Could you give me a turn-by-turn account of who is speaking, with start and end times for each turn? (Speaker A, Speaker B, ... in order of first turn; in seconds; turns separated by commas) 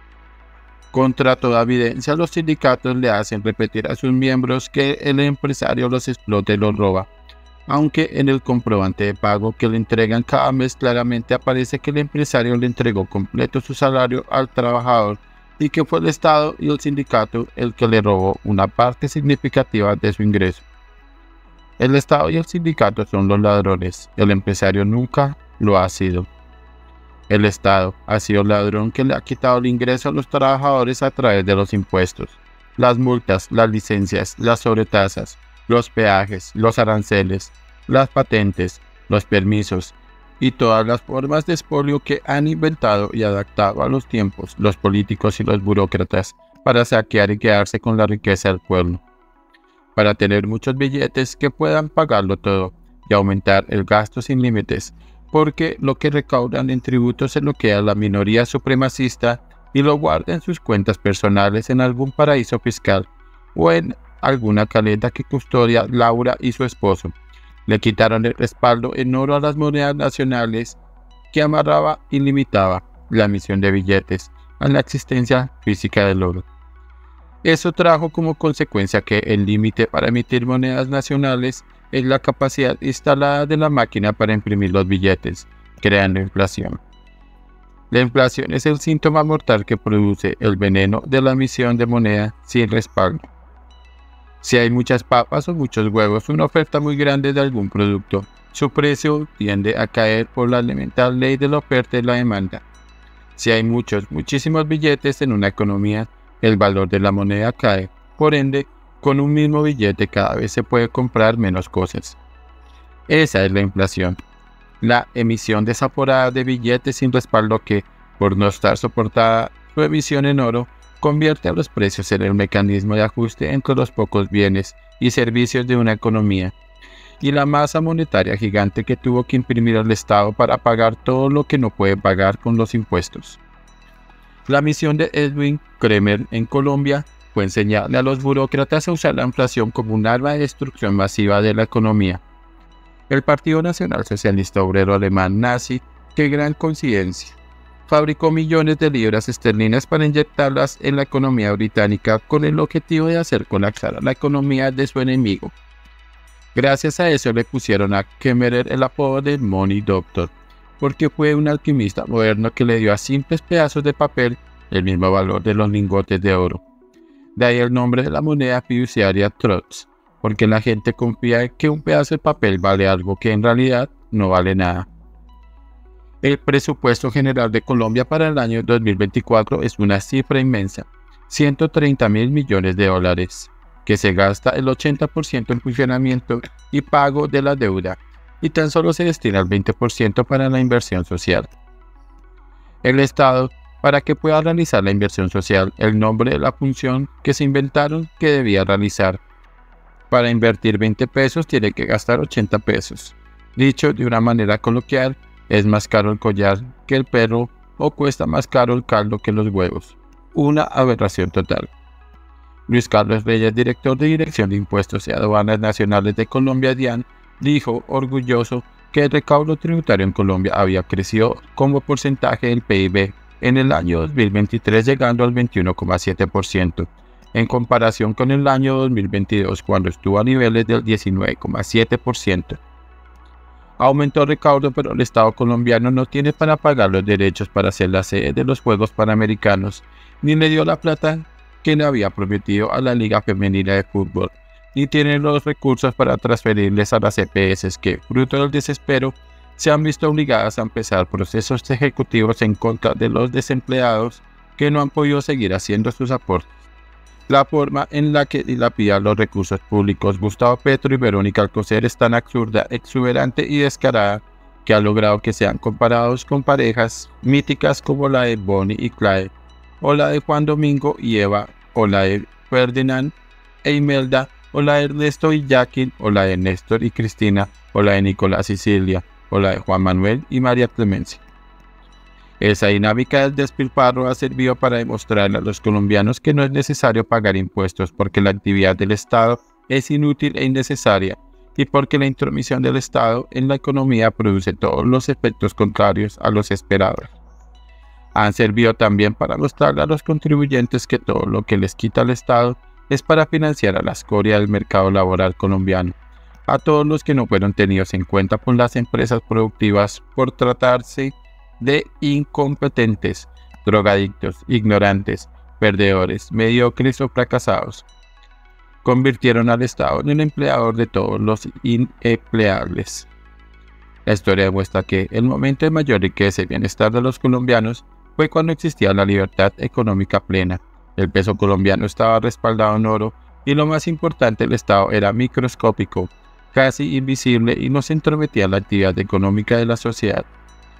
Speaker A: 0.9-7.1, Speaker A: 7.7-20.6, Speaker A: 21.8-26.3, Speaker A: 27.3-49.0, Speaker A: 50.0-67.1, Speaker A: 67.7-70.8, Speaker A: 71.3-76.5, Speaker A: 77.4-86.8, Speaker A: 87.9-93.2, Speaker A: 94.4-102.6, Speaker A: 103.3-112.2, Speaker A: 113.1-114.2, Speaker A: 114.8-126.5, Speaker A: 127.2-133.4, Speaker A: 134.5-142.2, Speaker A: 143.1-155.5, Speaker A: 156.5-166.6, Speaker A: 167.3-174.9, Speaker A: 176.2-191.5, Speaker A: 192.8-199.2, Speaker A: 200.1-211.7, Speaker A: 212.7-232.6, Speaker A: 233.8-256.5, Speaker A: 257.3-273.1, Speaker A: 273.6-281.2, Speaker A: 282.4-297.1, Speaker A: 298.1-305.9, Speaker A: 306.5-317.8, Speaker A: 318.8-323.1, Speaker A: 324.1-340.3